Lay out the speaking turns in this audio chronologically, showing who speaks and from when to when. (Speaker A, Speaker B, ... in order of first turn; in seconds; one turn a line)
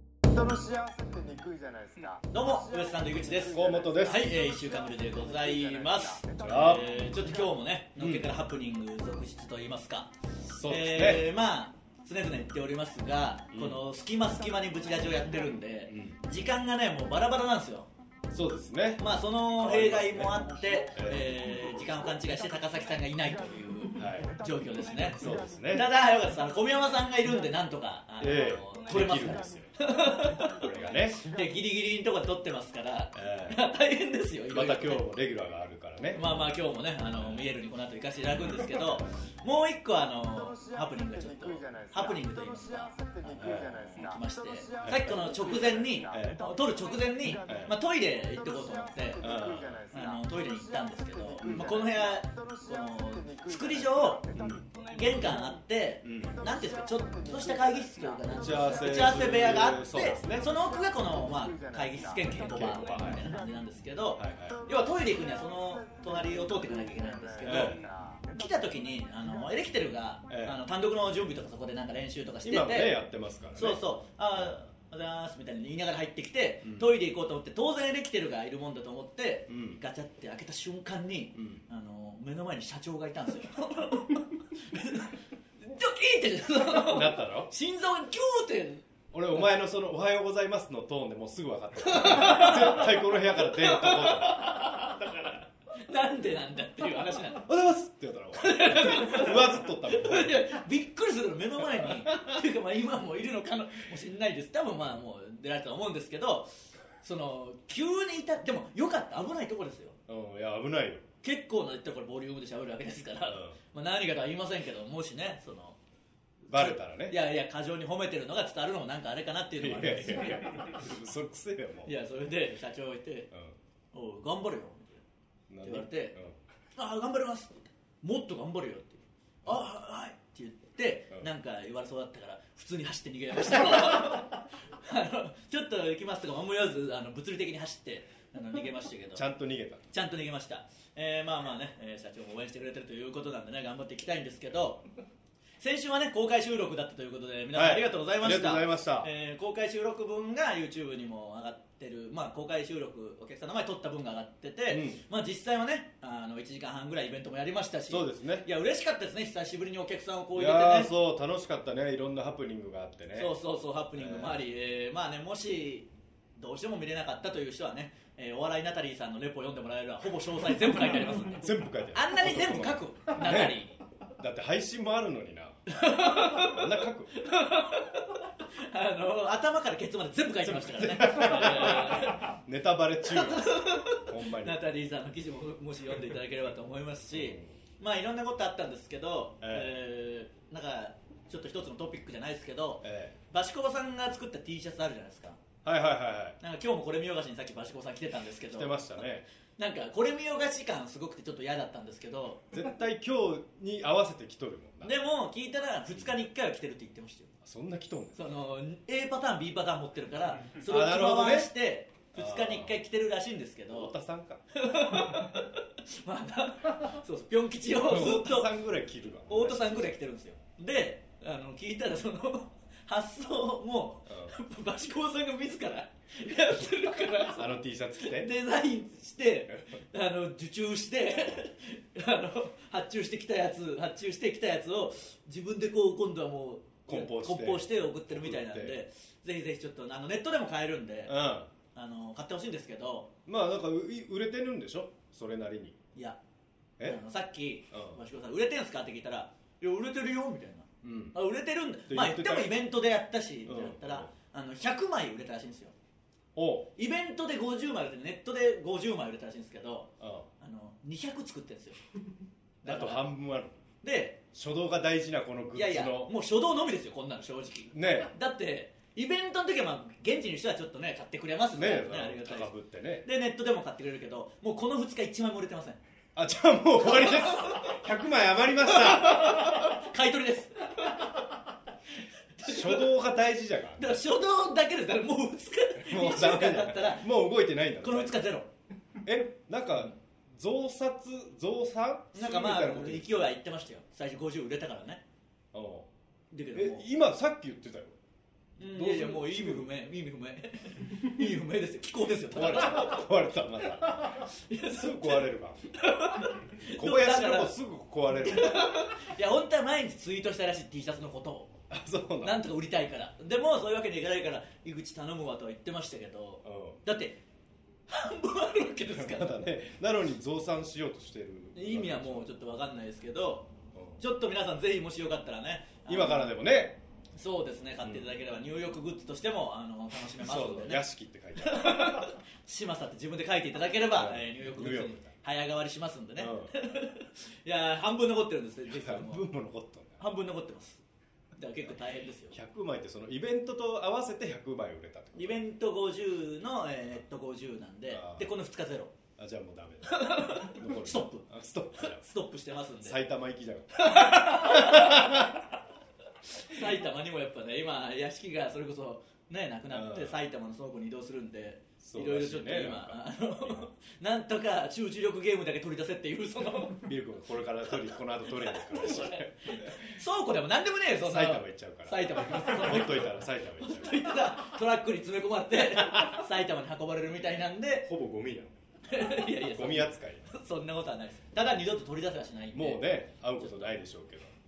Speaker A: 0.3-7.5
Speaker B: 2.3-10.1
Speaker C: 3.5-4.3
Speaker C: 6.4-6.9
Speaker C: 8.0-8.4
Speaker C: 10.4-11.3
Speaker B: 10.6-17.9
Speaker C: 13.5-13.8
Speaker C: 15.9-16.2
Speaker C: 18.3-21.3
Speaker B: 19.0-30.6
Speaker A: 20.3-20.8
Speaker A: 21.5-22.7
Speaker C: 24.0-24.3
Speaker A: 24.0-25.5
Speaker C: 25.1-25.9
Speaker C: 28.2-29.7
Speaker A: 29.1-29.6
Speaker A: 30.3-31.2
Speaker C: 30.5-31.2
Speaker B: 31.2-35.1
Speaker C: 33.1-33.6
Speaker C: 34.5-36.5
Speaker B: 36.1-49.3
Speaker C: 37.1-37.5
Speaker A: 40.3-55.6
Speaker C: 43.4-43.7
Speaker C: 44.8-45.3
Speaker C: 46.1-46.4
Speaker C: 47.5-47.7
Speaker C: 49.2-49.8
Speaker B: 49.9-54.2
Speaker C: 51.4-51.8
Speaker C: 54.4-54.7
Speaker B: 54.9-73.0
Speaker C: 56.0-56.4
Speaker A: 56.2-63.4
Speaker C: 58.3-60.4
Speaker C: 62.5-63.2
Speaker C: 64.2-64.6
Speaker A: 64.5-68.7
Speaker C: 67.5-67.8
Speaker C: 70.3-70.6
Speaker C: 72.4-74.6
Speaker B: 73.6-88.8
Speaker C: 76.6-76.9
Speaker C: 79.5-79.8
Speaker C: 81.3-81.6
Speaker C: 86.8-87.5
Speaker C: 89.1-94.9
Speaker B: 91.8-97.5
Speaker C: 97.4-100.5
Speaker B: 98.4-110.0
Speaker C: 101.6-102.4
Speaker C: 110.1-111.0
Speaker B: 111.2-115.8
Speaker C: 113.3-113.6
Speaker C: 116.5-117.2
Speaker B: 116.5-120.8
Speaker C: 119.6-121.9
Speaker B: 121.8-123.3
Speaker B: 123.9-125.0
Speaker C: 125.5-126.4
Speaker B: 125.6-126.2
Speaker B: 126.8-139.2
Speaker C: 139.1-139.9
Speaker B: 139.9-144.8
Speaker B: 145.6-160.9
Speaker C: 147.5-149.1
Speaker C: 154.7-155.0
Speaker C: 157.9-158.5
Speaker C: 160.3-163.3
Speaker B: 163.2-173.8
Speaker C: 163.9-164.4
Speaker C: 171.3-173.6
Speaker C: 174.2-177.2
Speaker B: 175.7-182.3
Speaker C: 180.4-184.6
Speaker B: 183.1-195.4
Speaker C: 187.1-187.5
Speaker C: 189.4-189.8
Speaker C: 192.8-193.2
Speaker C: 195.6-196.4
Speaker B: 196.4-199.0
Speaker C: 198.5-199.3
Speaker B: 199.6-202.5
Speaker C: 202.5-205.0
Speaker B: 204.8-207.3
Speaker C: 207.4-208.2
Speaker B: 208.2-213.9
Speaker C: 210.6-211.5
Speaker C: 212.1-212.8
Speaker C: 213.7-214.4
Speaker B: 214.5-218.5
Speaker C: 217.8-219.9
Speaker B: 219.3-241.2
Speaker C: 224.1-224.3
Speaker C: 227.2-228.3
Speaker C: 236.9-238.8
Speaker C: 241.1-241.5
Speaker B: 241.7-243.1
Speaker C: 243.3-245.8
Speaker B: 246.8-255.8
Speaker C: 247.7-248.0
Speaker C: 250.8-251.2
Speaker C: 251.9-252.6
Speaker C: 253.5-254.1
Speaker C: 256.4-256.7
Speaker B: 256.8-261.8
Speaker C: 260.0-260.3
Speaker B: 262.6-263.1
Speaker C: 262.6-263.6
Speaker B: 263.8-264.2
Speaker C: 264.3-266.1
Speaker B: 265.5-272.5
Speaker C: 267.7-268.1
Speaker C: 271.5-273.1
Speaker B: 273.0-275.8
Speaker C: 276.1-279.8
Speaker B: 276.9-277.8
Speaker B: 278.7-281.3
Speaker B: 282.4-282.9
Speaker C: 282.4-284.0
Speaker B: 283.8-287.1
Speaker C: 285.8-288.2
Speaker B: 287.8-288.5
Speaker C: 289.0-293.2
Speaker B: 292.1-295.0
Speaker C: 295.5-295.9
Speaker B: 296.3-296.9
Speaker C: 296.5-298.0
Speaker B: 298.6-303.0
Speaker C: 298.7-299.7
Speaker C: 302.3-305.7
Speaker B: 304.2-307.6
Speaker C: 306.7-308.8
Speaker B: 308.2-311.6
Speaker C: 311.7-312.4
Speaker B: 312.2-317.2
Speaker C: 316.4-316.8
Speaker B: 317.9-319.5
Speaker C: 318.9-322.3
Speaker B: 321.6-326.3
Speaker C: 323.7-324.0
Speaker C: 325.9-326.8
Speaker B: 327.2-330.8
Speaker C: 330.2-332.1
Speaker B: 331.4-339.3
Speaker C: 333.9-335.1
Speaker C: 336.2-336.6
Speaker C: 338.7-340.0
Speaker B: 340.0-340.8
Speaker B: 341.4-342.4
Speaker C: 342.3-345.4
Speaker B: 345.1-348.9
Speaker C: 347.9-348.3
Speaker C: 349.2-352.1
Speaker B: 349.9-353.0
Speaker C: 352.8-355.5
Speaker B: 353.8-355.4
Speaker B: 356.3-366.9
Speaker C: 359.7-360.2
Speaker C: 361.8-363.7
Speaker C: 366.8-369.9
Speaker B: 368.3-377.9
Speaker C: 371.0-374.0
Speaker C: 375.7-376.2
Speaker C: 377.9-380.4
Speaker B: 378.9-383.7
Speaker C: 382.5-384.3